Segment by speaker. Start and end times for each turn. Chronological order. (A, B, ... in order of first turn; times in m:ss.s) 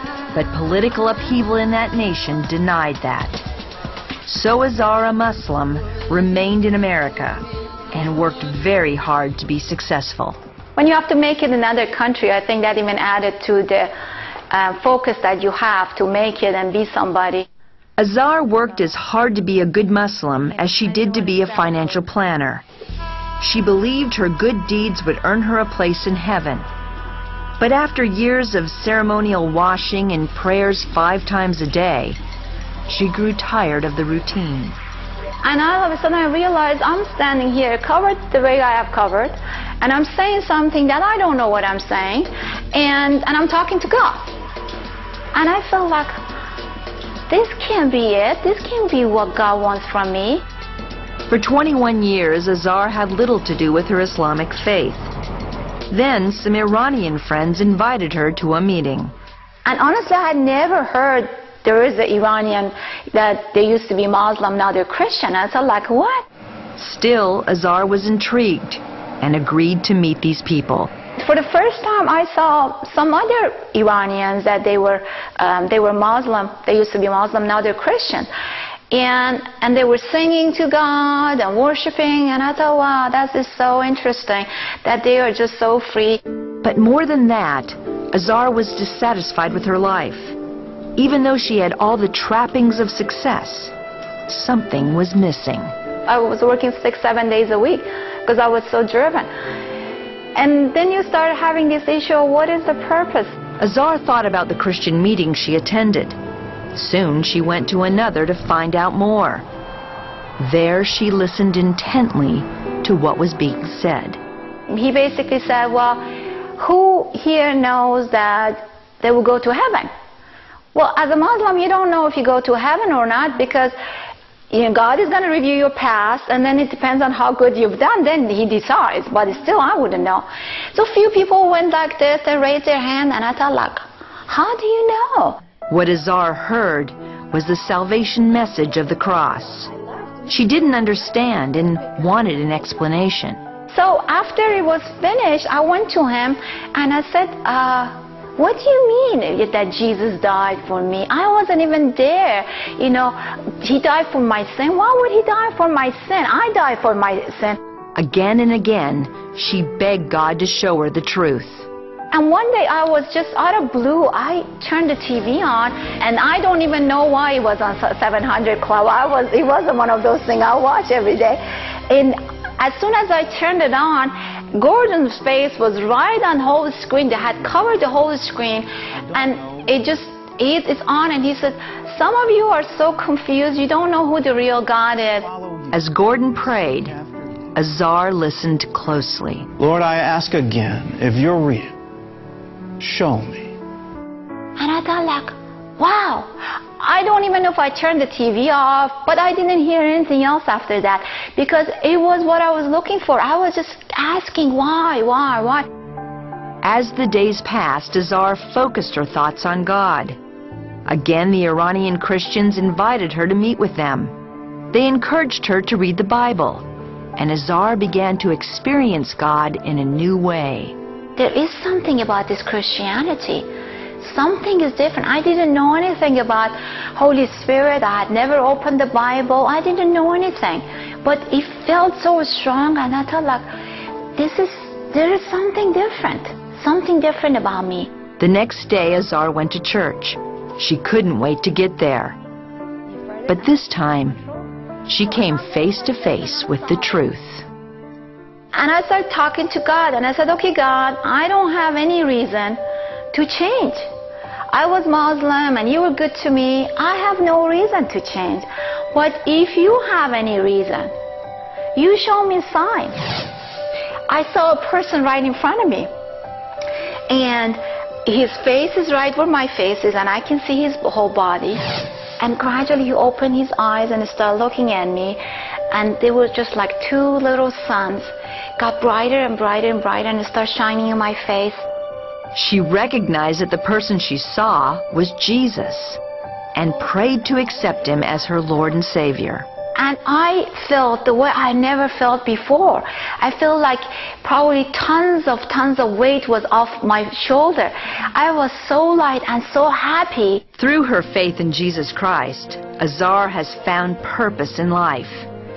0:00.3-0:03.4 A
0:04.3-0:10.4 A
0:10.8-0:13.9 B
0:14.5-0:17.5 B
0:18.0-0:22.6 A
0:23.4-0:26.7 A
0:27.6-0:32.2 A
0:32.9-0:34.8 A
0:35.4-0:44.3 B
0:45.3-0:46.2 B
0:47.3-0:50.4 B
0:51.3-0:55.1 A
0:55.9-0:59.1 A
0:59.7-1:06.3 B
1:06.8-1:10.9 A
1:11.2-1:18.3 B
1:18.9-1:26.2 B
1:26.6-1:30.4 A
1:31.0-1:33.7 A
1:34.3-1:35.7 A
1:36.1-1:39.3 B
1:40.4-1:43.4 B
1:43.6-1:46.2 A
1:46.8-1:49.4 A
1:50.4-1:54.2 A
1:54.7-1:56.0 B
1:56.6-1:59.9 B
2:00.7-2:03.8 B
2:04.5-2:15.4 B
2:15.7-2:19.7 A
2:20.3-2:23.4 A
2:23.7-2:37.6 B
2:38.0-2:41.6 A
2:42.1-3:05.3 B
3:05.7-3:07.0 A
3:07.6-3:09.5 A
3:09.6-3:11.7 C
3:12.8-3:13.6 C
3:14.6-3:25.7 B
3:26.6-3:30.2 A
3:30.9-3:34.1 A
3:34.7-3:36.6 A
3:37.2-3:40.7 A
3:41.2-3:43.5 B
3:44.0-3:53.5 B
3:54.2-3:57.9 B
3:58.2-4:02.2 A
4:03.3-4:04.2 A
4:04.9-4:07.4 A
4:08.5-4:12.6 B
4:13.1-4:13.9 B
4:14.5-4:20.9 B
4:21.8-4:23.1 B
4:24.1-4:25.9 B
4:27.1-4:41.6 B
4:42.4-4:46.0 A
4:46.6-4:49.5 A
4:49.8-5:00.4 B
5:00.6-5:05.3 A